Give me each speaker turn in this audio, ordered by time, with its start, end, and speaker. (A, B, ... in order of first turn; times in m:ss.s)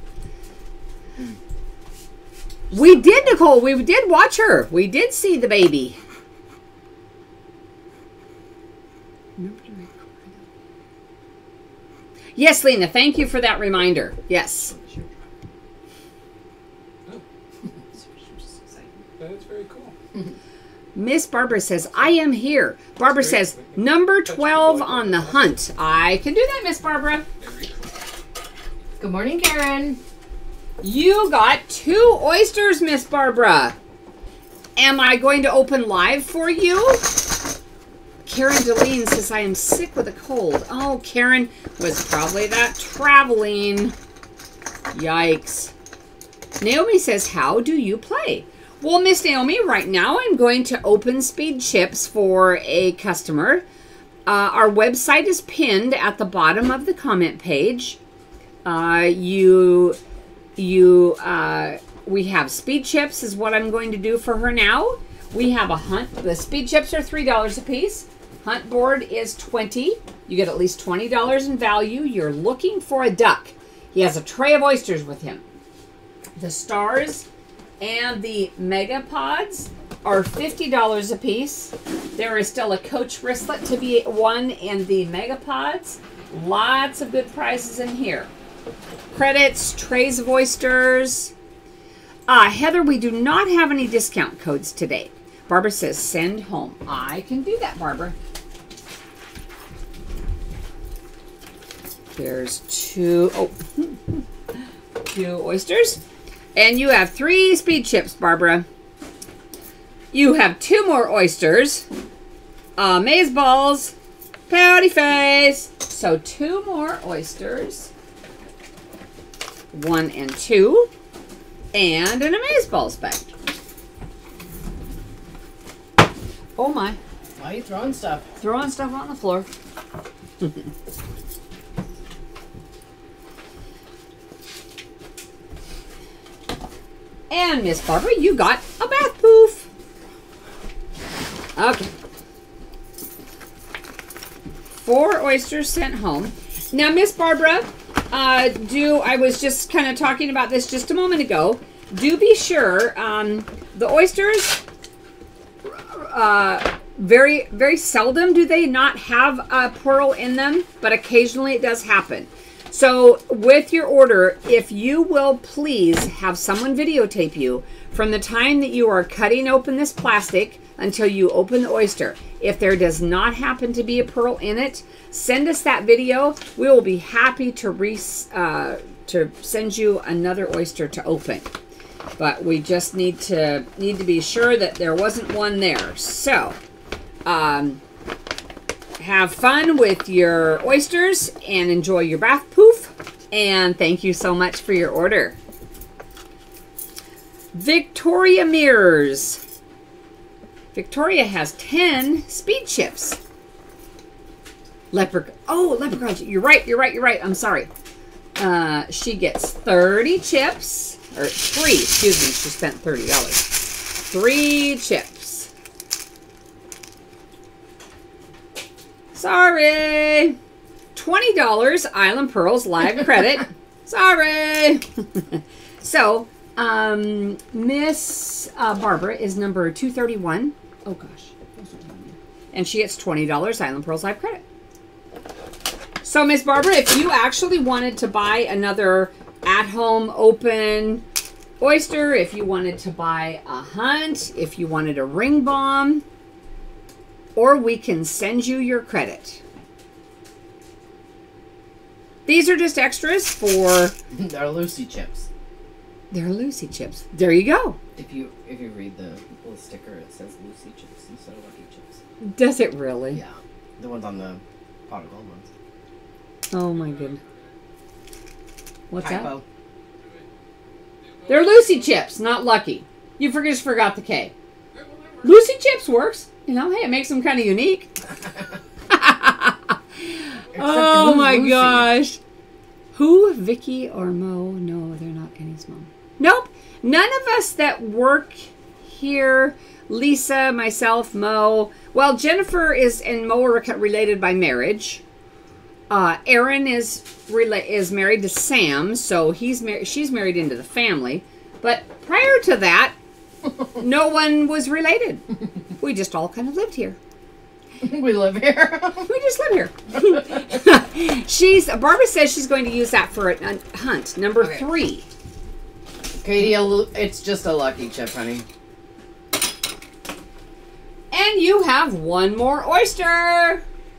0:02.7-0:06.0 A
0:09.4-0:10.3 A
0:12.4-0:14.7 A
0:14.7-0:15.2 B
0:18.4-0:19.0 B
0:19.2-0:20.0 C
0:21.0-0:27.3 A
0:23.2-0:25.5 C
0:27.4-0:27.9 C
0:29.0-0:30.0 B
0:30.8-0:33.8 A
0:34.8-0:37.0 A
0:38.2-0:44.0 A
0:44.9-0:45.7 A
0:46.6-0:53.6 A
0:54.3-0:58.0 A
0:58.6-1:00.0 A
1:00.6-1:15.4 A
1:16.4-1:17.3 A
1:17.8-1:28.3 A
1:29.1-1:31.3 A
1:32.3-1:38.2 A
1:42.1-1:44.2 A
1:45.1-1:46.0 A
1:46.6-1:48.7 A
1:50.1-1:51.9 A
1:52.8-1:54.0 A
1:54.5-1:57.9 A
1:59.7-2:00.9 A
2:01.7-2:03.3 A
2:06.6-2:07.0 A
2:07.4-2:08.2 B
2:08.4-2:09.5 A
2:17.3-2:19.7 A
2:21.6-2:21.9 A
2:24.8-2:34.6 A
2:35.6-3:01.5 A
3:02.2-3:06.6 A
3:07.2-3:07.8 A
3:09.0-3:15.4 A
3:17.5-3:19.4 A
3:20.7-3:23.2 A
3:24.9-3:27.7 A
3:28.4-3:35.5 A
3:39.1-3:40.4 A
3:41.0-3:54.4 A
3:56.0-4:01.0 A
4:01.6-4:06.0 A
4:07.4-4:09.4 A
4:12.3-4:14.0 A
4:14.1-4:15.3 B
4:16.1-4:17.8 A
4:18.0-4:22.0 B
4:22.2-4:23.2 A
4:23.1-4:25.5 B
4:26.5-4:27.2 A
4:26.7-4:27.5 C
4:28.9-4:29.3 A
4:29.0-4:29.4 B
4:30.0-4:30.3 C
4:31.0-4:32.0 C
4:31.3-4:34.3 A
4:34.7-4:35.3 C
4:35.2-4:37.9 A
4:38.9-4:42.2 A
4:40.6-4:41.9 B
4:42.9-4:55.0 A
4:55.9-5:03.0 A
5:03.8-5:05.2 A
5:05.8-5:07.0 A
5:07.8-5:09.1 B
5:09.1-5:15.1 A
5:16.2-5:18.5 B
5:21.1-5:23.6 A